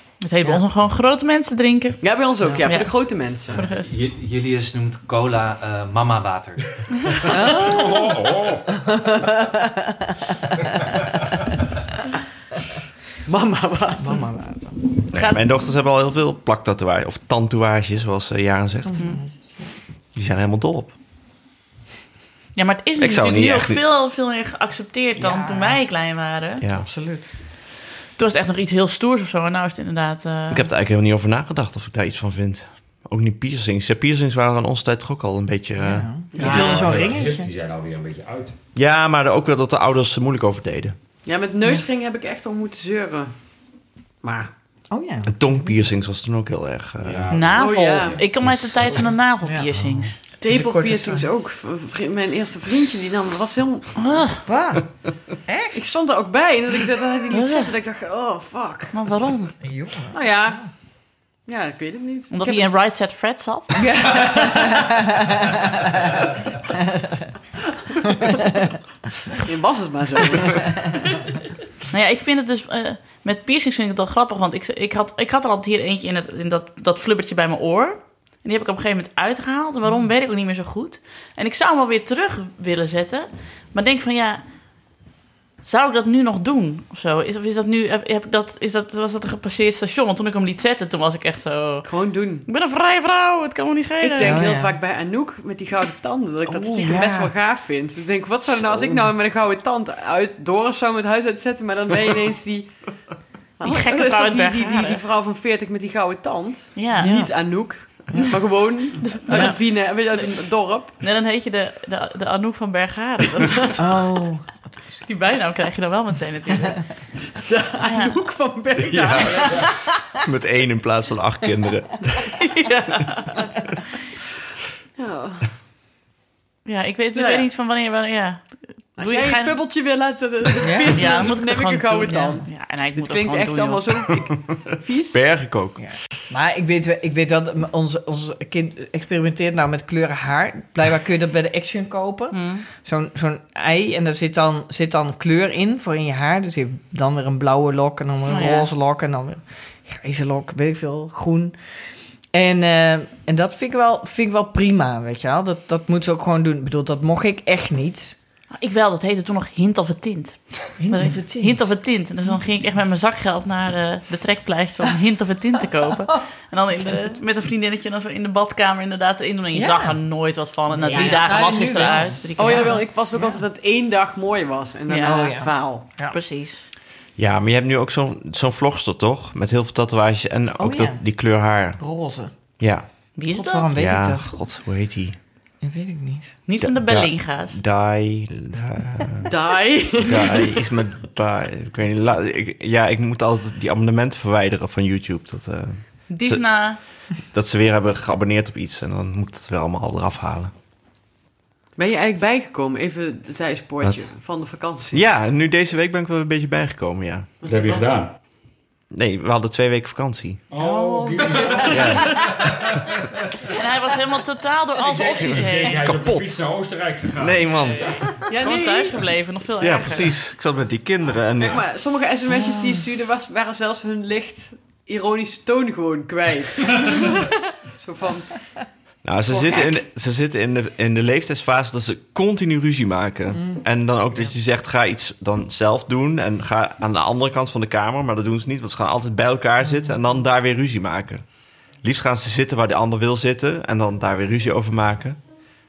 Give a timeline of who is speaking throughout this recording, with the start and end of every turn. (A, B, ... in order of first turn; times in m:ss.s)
0:00.2-0:03.9 A
0:02.0-0:03.6 B
0:02.4-0:02.6 C
0:03.5-0:06.8 D
0:07.3-0:08.1 C
0:07.5-0:08.8 E
0:09.0-0:09.8 C
0:13.2-0:14.2 B
0:14.0-0:14.8 C
0:15.1-0:15.4 A
0:15.1-0:19.2 F
0:18.8-0:19.7 C
0:20.1-0:21.0 F
0:22.5-0:26.6 A
0:23.0-0:23.8 F
0:25.2-0:25.8 C
0:26.6-0:26.9 F
0:26.7-0:27.2 C
0:28.1-0:30.7 A
0:30.5-0:36.3 F
0:35.8-0:37.5 C
0:36.3-0:36.9 B
0:36.4-0:38.5 E
0:38.7-0:41.0 F
0:41.2-0:44.5 B
0:44.9-0:45.8 C
0:45.3-0:47.3 F
0:47.0-0:47.8 E
0:47.3-0:50.2 A
0:47.5-0:48.2 B
0:50.3-0:51.3 C
0:50.4-0:53.9 B
0:54.0-0:54.4 A
0:54.4-0:55.8 C
0:55.7-0:58.9 B
0:57.3-0:57.7 A
0:58.9-0:59.6 A
0:59.6-1:00.7 C
1:00.1-1:00.7 B
1:01.4-1:02.6 B
1:02.3-1:04.3 A
1:03.8-1:05.0 C
1:06.8-1:07.2 C
1:08.0-1:08.7 C
1:09.4-1:10.7 B
1:11.9-1:24.4 A
1:25.6-1:31.9 A
1:31.8-1:32.5 B
1:32.5-1:34.4 A
1:34.0-1:42.8 B
1:34.2-1:34.8 C
1:36.4-1:37.3 C
1:43.6-1:50.9 B
1:43.6-1:45.0 A
1:46.8-1:47.1 A
1:47.0-1:47.5 C
1:49.0-1:54.2 A
1:53.8-1:54.6 C
1:55.0-1:56.9 A
1:57.3-1:59.5 B
1:57.8-1:58.1 A
1:58.8-2:02.4 F
2:02.4-2:03.5 A
2:05.0-2:05.5 B
2:06.6-2:09.6 A
2:07.1-2:07.4 B
2:09.0-2:15.2 B
2:10.6-2:11.3 C
2:10.9-2:13.8 A
2:14.5-2:16.0 F
2:15.8-2:38.2 C
2:22.3-2:22.6 A
2:28.3-2:28.7 A
2:38.5-2:52.9 A
2:40.8-2:42.3 C
2:49.5-2:50.0 C
2:50.8-2:53.4 C
2:50.8-2:51.5 B
2:52.4-2:55.8 B
2:54.9-2:56.7 A
2:55.0-2:56.2 C
2:57.2-3:01.9 F
3:00.6-3:01.0 C
3:01.8-3:02.3 C
3:02.6-3:03.1 F
3:03.2-3:03.8 A
3:03.3-3:04.3 C
3:03.7-3:05.2 F
3:05.6-3:06.4 C
3:06.5-3:07.6 A
3:06.6-3:09.3 F
3:09.2-3:10.6 B
3:10.0-3:20.5 F
3:16.1-3:16.8 A
3:21.8-3:25.0 B
3:23.8-3:24.1 F
3:24.9-3:27.3 F
3:27.4-3:27.8 B
3:27.4-3:28.1 E
3:28.9-3:30.4 F
3:30.5-3:32.5 E
3:30.5-3:31.9 C
3:31.7-3:32.3 F
3:33.5-3:35.8 A
3:34.8-3:38.0 E
3:35.8-3:36.3 F
3:37.2-3:38.0 F
3:37.6-3:40.2 A
3:38.2-3:39.0 B
3:39.6-3:41.7 F
3:41.4-3:48.6 B
3:42.4-3:42.8 C
3:49.0-4:05.3 F
3:49.3-3:49.8 B
3:53.3-3:53.6 C
3:59.6-3:59.9 C